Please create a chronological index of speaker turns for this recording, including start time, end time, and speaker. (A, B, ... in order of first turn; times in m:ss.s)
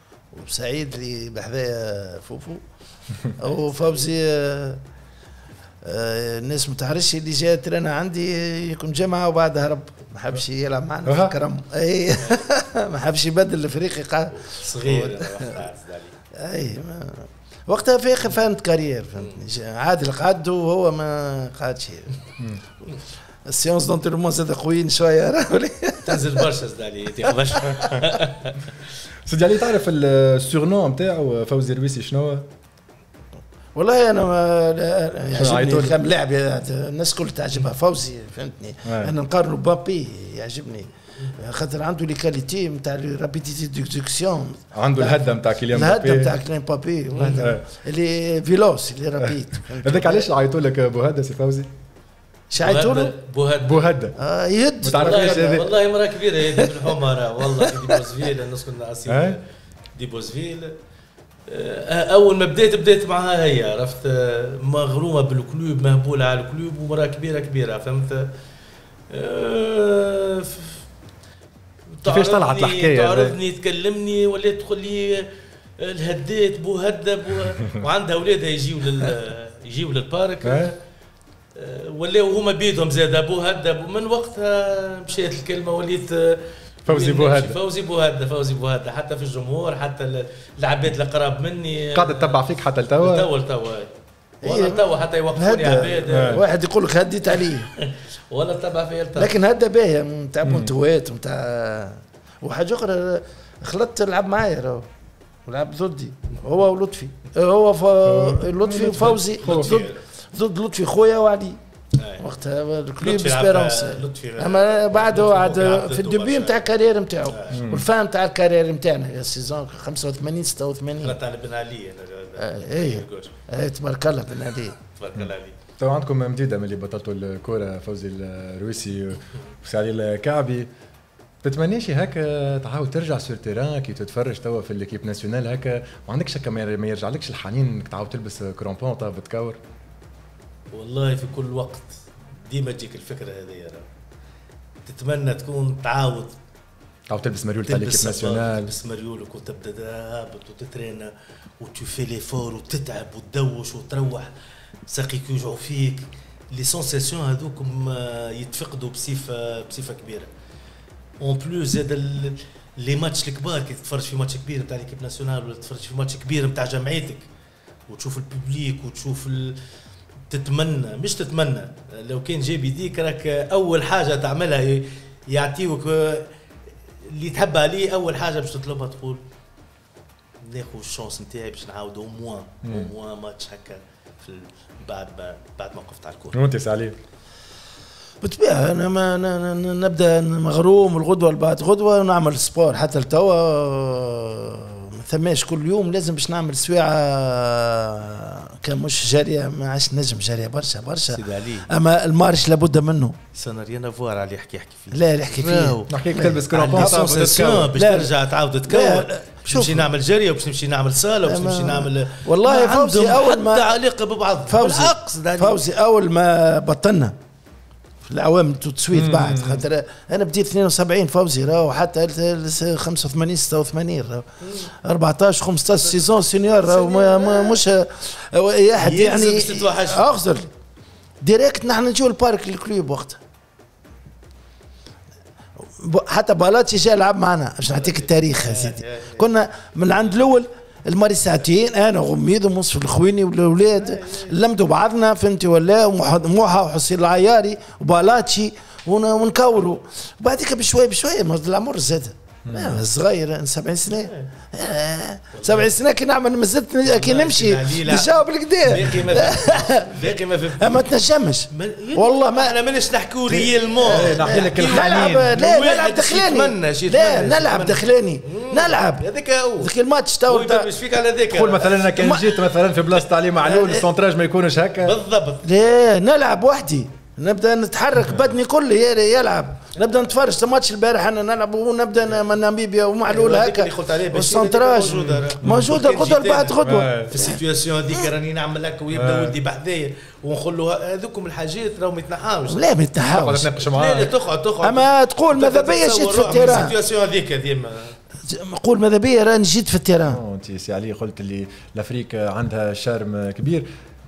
0:00.3-0:02.6 A
0:03.3-0:04.8 A
0:05.8-0:15.6 A
0:11.1-0:11.3 B
0:14.4-0:16.2 C
0:16.3-0:22.2 A
0:23.5-0:26.5 A
0:26.0-0:28.7 C
0:27.3-0:28.0 A
0:29.3-0:32.5 B
0:33.8-0:50.3 A
0:35.4-0:36.0 B
0:38.9-0:39.1 B
0:44.7-0:46.4 B
0:47.3-0:47.6 B
0:49.8-0:51.7 B
0:52.5-0:53.1 A
0:52.6-0:53.9 C
0:53.6-0:54.1 B
0:54.2-0:55.6 A
0:54.8-0:55.7 B
0:54.9-0:59.4 C
0:59.1-0:59.4 B
1:00.0-1:00.8 C
1:01.5-1:08.3 C
1:09.1-1:10.8 C
1:12.0-1:20.8 C
1:12.0-1:13.4 B
1:20.4-1:20.7 B
1:21.6-1:32.4 C
1:26.9-1:27.6 B
1:31.9-1:33.3 B
1:33.0-1:33.9 C
1:34.4-1:37.7 A
1:34.4-1:36.4 C
1:36.1-1:36.4 B
1:37.4-1:39.3 C
1:39.1-1:44.9 A
1:40.4-1:40.7 B
1:45.5-1:51.6 A
1:48.0-1:49.8 B
1:48.7-1:50.0 C
1:52.0-1:52.2 C
1:52.2-2:01.2 A
1:53.0-1:56.7 C
1:57.3-1:57.6 C
1:57.5-1:57.9 B
2:01.0-2:03.3 C
2:02.4-2:04.8 A
2:04.9-2:05.6 C
2:05.1-2:10.7 B
2:11.4-2:19.6 B
2:20.7-2:23.8 C
2:24.9-2:26.4 C
2:27.1-2:28.7 B
2:27.7-2:34.3 C
2:34.9-2:40.3 C
2:41.2-2:47.3 C
2:47.9-2:49.6 C
2:50.3-2:56.3 C
2:57.1-2:59.2 C
3:00.4-3:06.4 C
3:02.6-3:02.9 B
3:06.3-3:07.0 B
3:08.2-3:23.2 A
3:21.1-3:21.7 C
3:23.3-3:35.7 C
3:24.9-3:28.1 A
3:25.9-3:27.7 B
3:28.7-3:29.9 A
3:31.2-3:33.7 A
3:34.5-3:37.2 A
3:38.1-3:50.5 A
3:38.9-3:39.7 B
3:46.6-3:47.6 C
3:48.8-3:50.1 C
3:51.2-3:53.2 A
3:55.6-4:22.6 A
3:57.8-3:59.2 C
4:03.7-4:04.4 C
4:12.4-4:12.8 B
4:14.0-4:14.3 C
4:15.4-4:15.7 C
4:16.8-4:20.9 C
4:21.5-4:29.7 C
4:23.3-4:29.1 A
4:23.8-4:25.3 B
4:29.6-4:30.7 A
4:30.3-4:32.4 C
4:31.3-4:35.0 B
4:33.4-4:33.8 A
4:34.8-4:35.5 C
4:35.4-4:47.4 A
4:43.1-4:52.7 C
4:44.9-4:45.7 B
4:46.6-4:47.1 B
4:48.9-4:49.4 B
4:52.5-4:53.5 A
4:53.1-4:54.1 B
4:53.6-4:58.0 C
4:54.6-4:56.8 A
4:58.3-5:00.2 A
5:00.1-5:03.7 B